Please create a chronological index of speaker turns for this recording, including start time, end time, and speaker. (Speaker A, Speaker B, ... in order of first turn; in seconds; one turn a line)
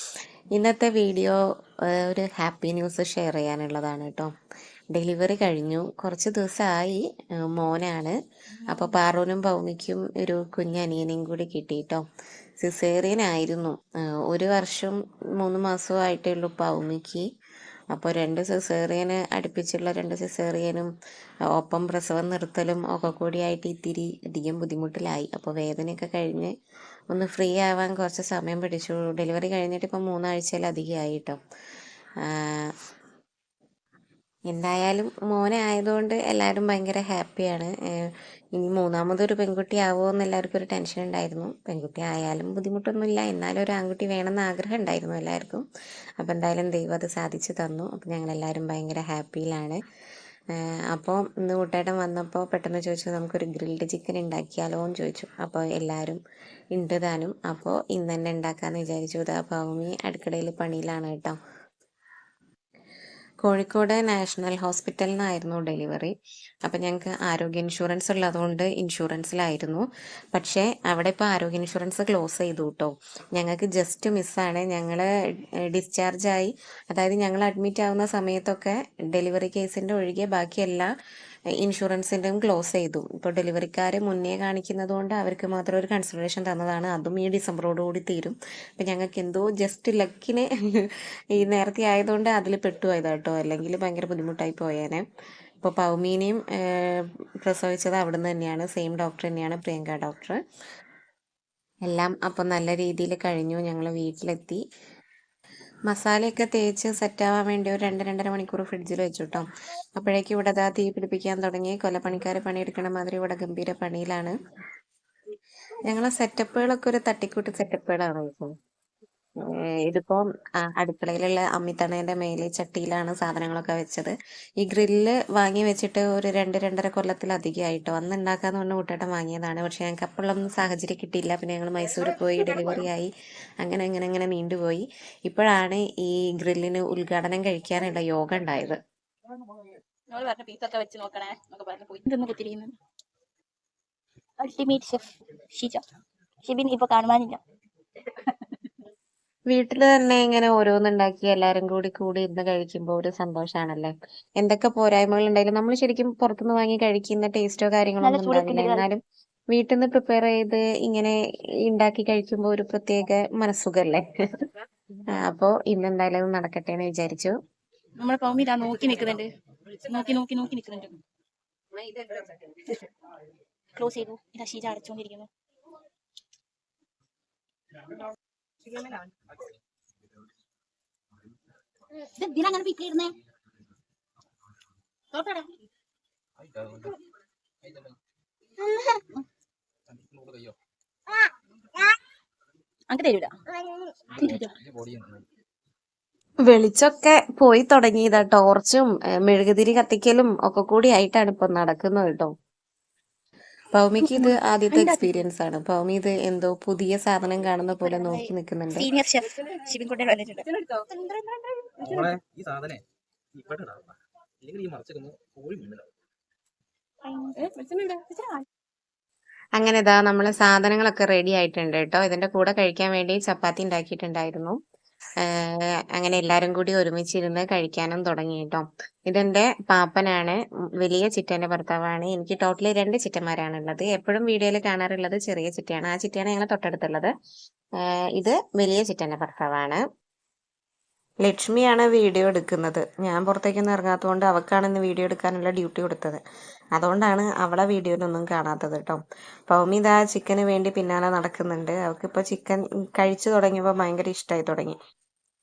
Speaker A: 0.5-1.4
Speaker A: 1.9-4.3
Speaker A: 4.9-8.2
Speaker A: 8.7-12.0
Speaker A: 12.6-17.3
Speaker A: 17.9-20.9
Speaker A: 21.5-26.5
Speaker A: 27.1-31.4
Speaker A: 32.2-32.7
Speaker A: 34.5-45.6
Speaker A: 46.2-49.8
Speaker A: 50.5-56.2
Speaker A: 56.7-61.4
Speaker A: 63.4-66.1
Speaker A: 66.6-75.1
Speaker A: 75.7-80.9
Speaker A: 81.6-95.0
Speaker A: 95.6-100.4
Speaker A: 101.8-104.6
Speaker A: 105.9-114.3
Speaker A: 115.9-118.5
Speaker A: 119.4-133.1
Speaker A: 133.6-138.8
Speaker B: 140.1-142.7
Speaker B: 144.4-145.8
Speaker B: 146.4-147.4
Speaker A: 149.5-159.0
Speaker B: 158.0-158.8
Speaker A: 159.5-164.5
Speaker A: 165.2-167.3
Speaker B: 168.0-169.3
Speaker B: 169.8-171.0
Speaker B: 173.7-175.3
Speaker B: 182.1-183.1
Speaker B: 185.1-185.5
Speaker C: 186.4-186.9
Speaker C: 187.6-187.9
Speaker B: 188.6-189.0
Speaker C: 189.9-190.6
Speaker B: 192.9-193.3
Speaker B: 194.2-194.5
Speaker C: 194.2-195.2
Speaker A: 196.5-202.3
Speaker A: 203.7-208.9
Speaker B: 204.0-205.1
Speaker B: 207.8-211.8
Speaker C: 211.8-212.8
Speaker C: 213.3-215.9
Speaker B: 217.0-218.4
Speaker A: 219.6-224.6
Speaker A: 225.2-237.1
Speaker A: 238.2-239.8
Speaker A: 241.2-246.2
Speaker A: 246.8-254.8